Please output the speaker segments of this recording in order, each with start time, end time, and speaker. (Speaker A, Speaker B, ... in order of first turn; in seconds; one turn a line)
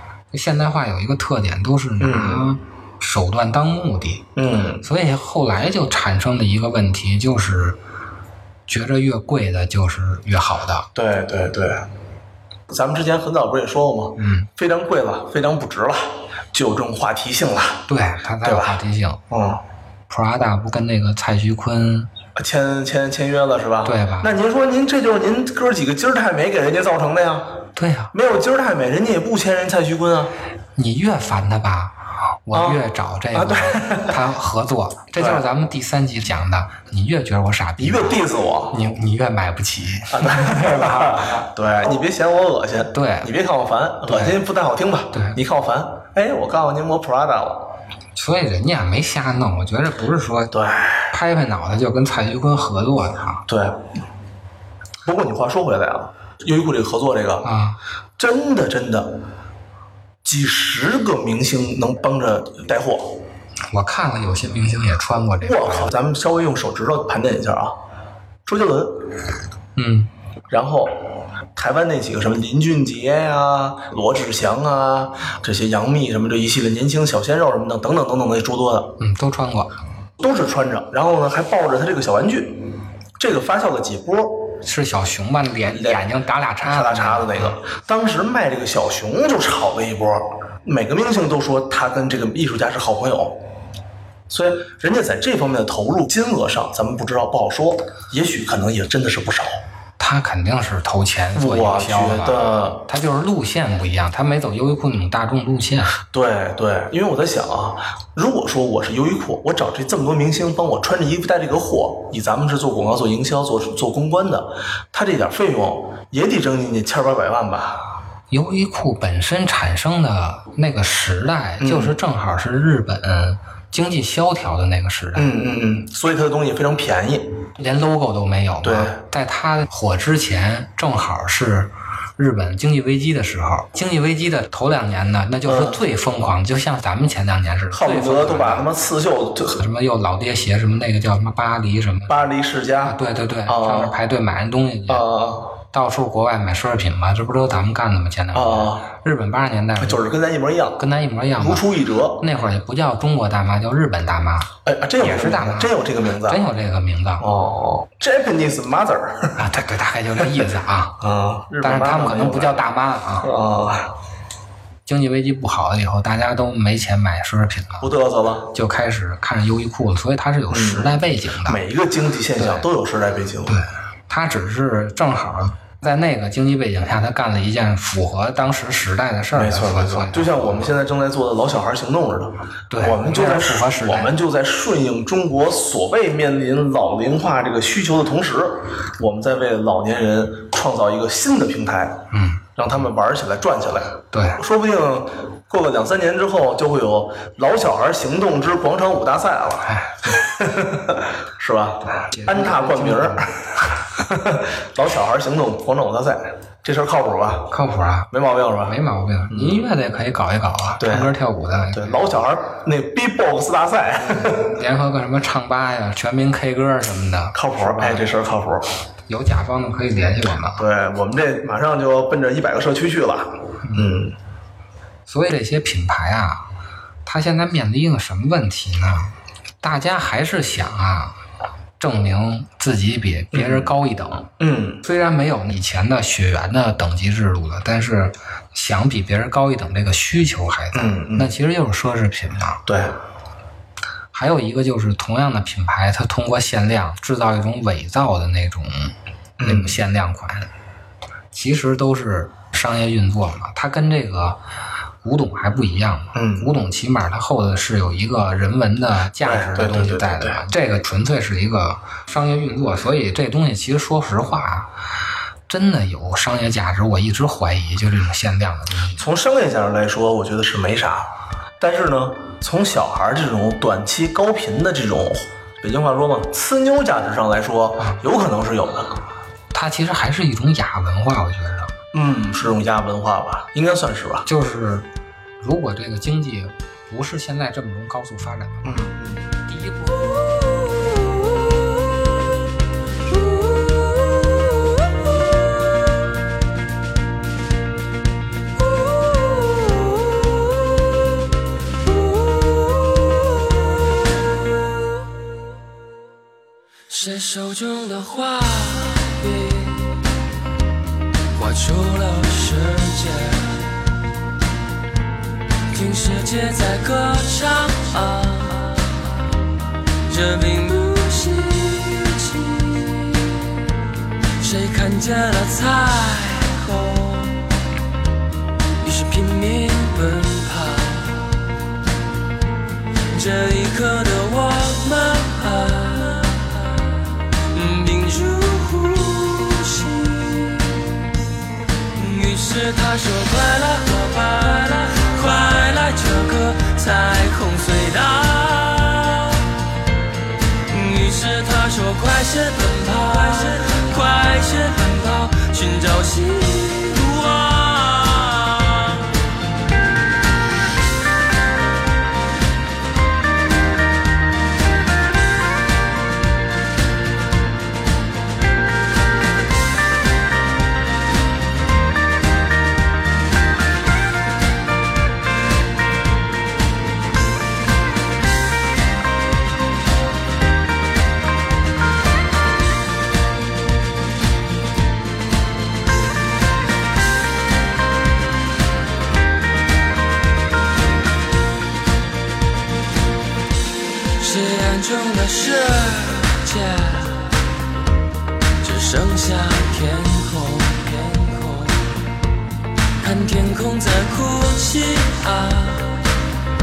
Speaker A: 0.3-4.3
Speaker B: 2.0-2.5
Speaker B: 4.3-4.9
Speaker A: 4.8-7.8
Speaker A: 8.7-10.9
Speaker B: 10.9-11.9
Speaker B: 12.7-17.9
Speaker A: 14.2-14.5
Speaker A: 17.9-19.2
Speaker B: 18.4-19.6
Speaker A: 20.1-22.1
Speaker B: 22.4-27.6
Speaker A: 23.9-24.3
Speaker A: 27.8-28.1
Speaker B: 28.1-30.4
Speaker A: 30.8-41.5
Speaker B: 32.5-34.2
Speaker B: 35.2-35.5
Speaker B: 37.8-38.8
Speaker B: 40.1-47.7
Speaker A: 42.9-43.3
Speaker A: 44.1-44.4
Speaker A: 45.1-45.4
Speaker A: 48.2-50.5
Speaker B: 50.5-51.1
Speaker A: 51.1-53.5
Speaker B: 53.5-53.9
Speaker B: 55.0-57.5
Speaker A: 57.4-57.8
Speaker B: 58.2-59.2
Speaker B: 60.2-63.2
Speaker A: 63.7-65.9
Speaker B: 65.4-67.8
Speaker B: 68.5-69.2
Speaker A: 69.8-70.1
Speaker B: 70.5-79.0
Speaker A: 79.0-79.8
Speaker B: 80.2-84.6
Speaker A: 84.6-87.5
Speaker B: 85.7-86.0
Speaker B: 86.6-93.4
Speaker B: 94.3-99.6
Speaker A: 100.0-106.0
Speaker B: 101.3-102.9
Speaker B: 106.0-117.8
Speaker A: 118.3-125.3
Speaker B: 121.6-122.0
Speaker B: 125.2-127.4
Speaker A: 127.6-138.7
Speaker B: 128.6-129.0
Speaker B: 135.5-135.8
Speaker B: 137.7-139.6
Speaker A: 139.6-142.2
Speaker B: 142.1-144.0
Speaker A: 142.8-145.1
Speaker B: 144.9-145.6
Speaker A: 145.7-150.1
Speaker B: 148.3-148.9
Speaker B: 149.8-150.8
Speaker A: 150.8-151.7
Speaker B: 151.4-152.2
Speaker A: 152.2-157.3
Speaker B: 154.7-156.4
Speaker B: 157.2-159.5
Speaker A: 159.4-161.0
Speaker B: 161.0-162.6
Speaker A: 161.6-163.3
Speaker B: 163.2-163.9
Speaker A: 164.9-167.9
Speaker B: 167.8-168.6
Speaker A: 168.5-171.7
Speaker B: 170.5-173.6
Speaker A: 172.4-172.7
Speaker A: 173.5-180.7
Speaker B: 179.3-207.5
Speaker A: 182.7-184.1
Speaker A: 192.1-192.5
Speaker A: 194.1-194.4
Speaker A: 199.7-200.2
Speaker A: 202.0-203.4
Speaker A: 207.5-212.1
Speaker B: 208.1-208.8
Speaker B: 209.3-209.7
Speaker B: 210.8-211.1
Speaker B: 211.7-214.5
Speaker A: 214.0-218.1
Speaker B: 217.3-218.7
Speaker A: 219.1-220.7
Speaker B: 220.6-224.2
Speaker A: 223.6-223.9
Speaker A: 225.1-226.5
Speaker A: 227.1-231.2
Speaker A: 231.8-242.7
Speaker B: 233.3-233.7
Speaker B: 234.4-234.8
Speaker B: 240.7-241.3
Speaker B: 242.7-242.9
Speaker A: 244.1-250.5
Speaker B: 249.4-249.8
Speaker A: 251.3-254.4
Speaker A: 255.0-264.7
Speaker B: 256.1-256.5
Speaker B: 259.2-260.4
Speaker A: 265.5-269.0
Speaker B: 269.0-279.0
Speaker A: 279.5-281.7
Speaker B: 281.9-284.3
Speaker A: 284.3-284.9
Speaker A: 285.4-288.9
Speaker B: 288.6-289.3
Speaker A: 289.5-290.1
Speaker C: 306.9-310.1
Speaker C: 311.4-313.9
Speaker C: 315.7-319.2
Speaker C: 320.1-323.7
Speaker C: 324.4-327.6
Speaker C: 328.8-331.5
Speaker C: 333.1-341.0
Speaker C: 341.9-349.6
Speaker C: 350.7-359.1
Speaker C: 394.2-397.4
Speaker C: 398.6-402.0
Speaker C: 403.0-406.2